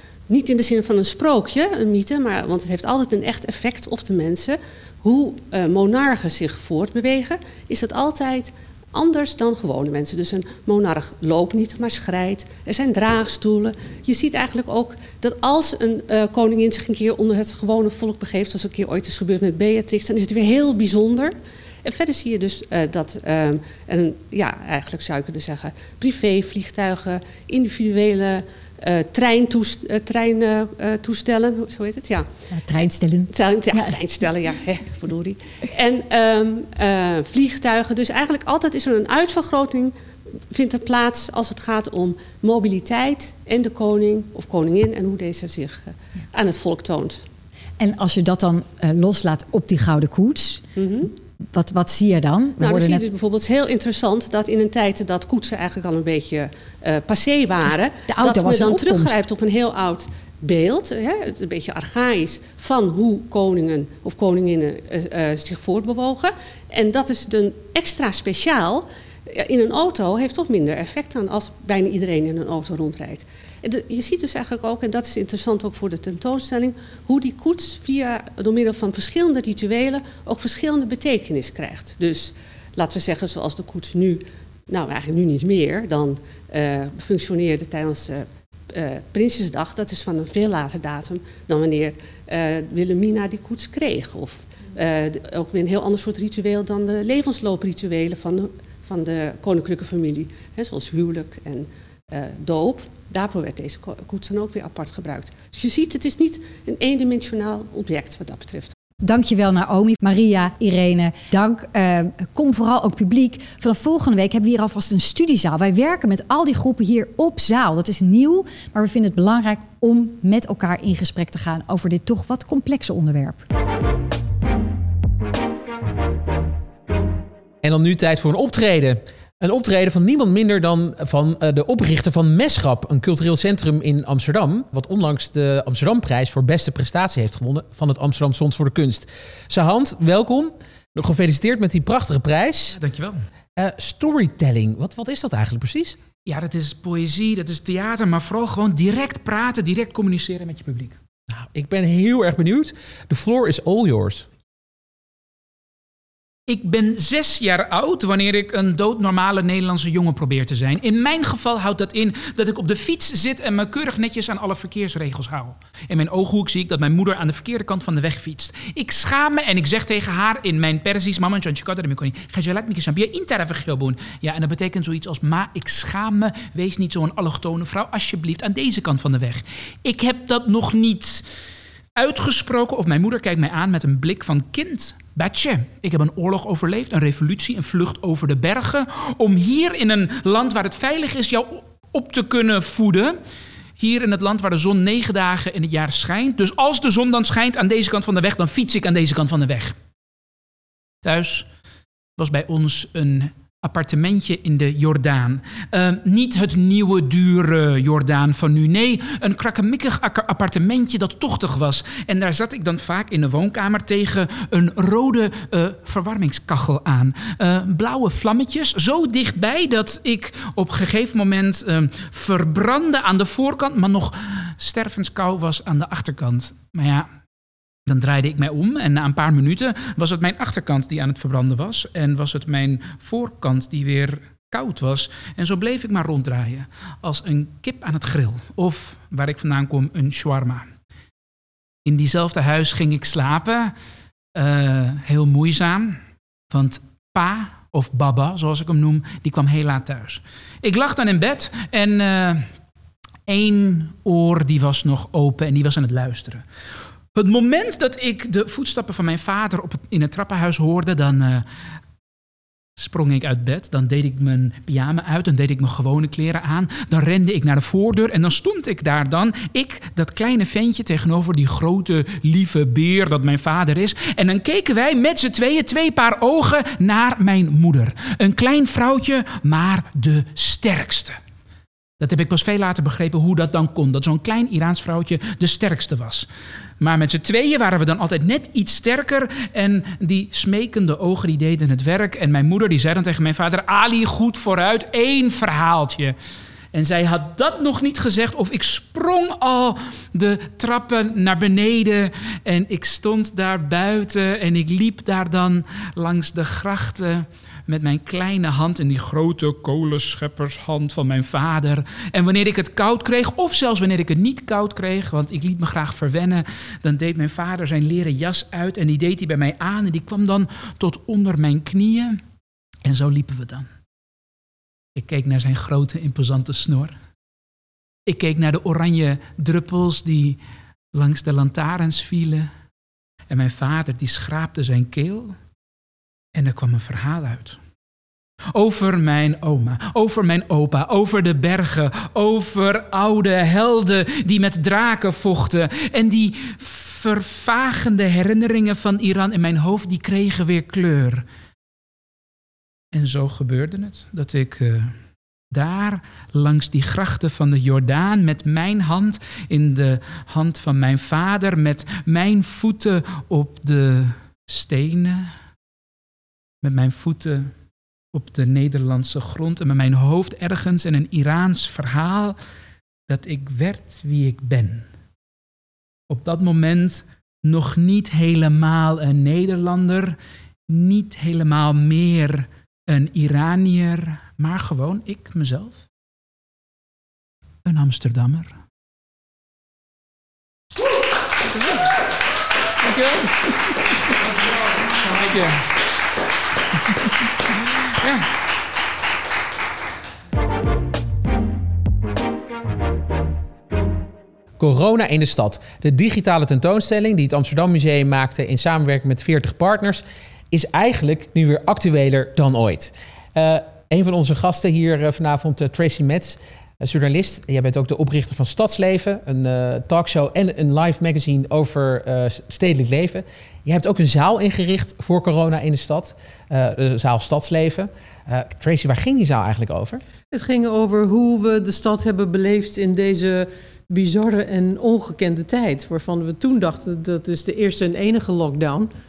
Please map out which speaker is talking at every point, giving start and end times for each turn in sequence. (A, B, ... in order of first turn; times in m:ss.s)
0:00.3-0:32.3 A
0:32.5-0:34.0 B
0:33.3-0:39.9 A
0:40.5-0:47.2 A
0:47.8-0:50.6 B
0:50.8-0:51.1 A
0:51.5-0:53.0 B
0:52.6-1:48.7 A
0:58.1-0:59.2 B
1:49.0-2:03.4 B
2:07.6-2:22.8 C
2:22.8-2:23.2 D
2:23.6-2:26.0 C
2:26.2-2:31.0 D
2:31.3-2:34.3 C
2:36.5-3:01.3 D
3:01.9-3:13.2 D
3:13.8-3:19.8 D
3:21.0-3:21.5 D
3:22.2-3:47.1 D
3:47.8-4:00.7 D
4:01.8-4:03.7 D
4:04.3-4:06.0 D
4:06.5-4:12.5 D
4:13.3-4:16.4 D
4:17.1-4:21.4 D
4:22.8-4:41.2 D
4:42.0-4:46.3 D
4:46.8-4:56.1 D
4:56.7-5:22.2 D
5:22.8-5:23.7 D
5:24.9-5:26.9 D
5:28.0-5:30.4 D
5:30.9-5:32.5 D
5:33.3-5:35.4 D
5:36.3-5:37.6 D
5:38.5-5:51.2 D
5:52.9-5:54.9 D
5:55.5-6:05.3 D
6:06.6-6:07.5 D
6:08.1-6:12.4 D
6:13.1-6:14.9 D
6:16.1-6:20.2 D
6:20.7-6:25.8 D
6:27.6-6:28.6 D
6:31.4-6:31.9 D
6:32.8-6:34.0 D
6:35.0-6:35.7 D
6:38.0-6:38.3 D
6:44.6-7:10.0 C
7:10.3-7:18.9 E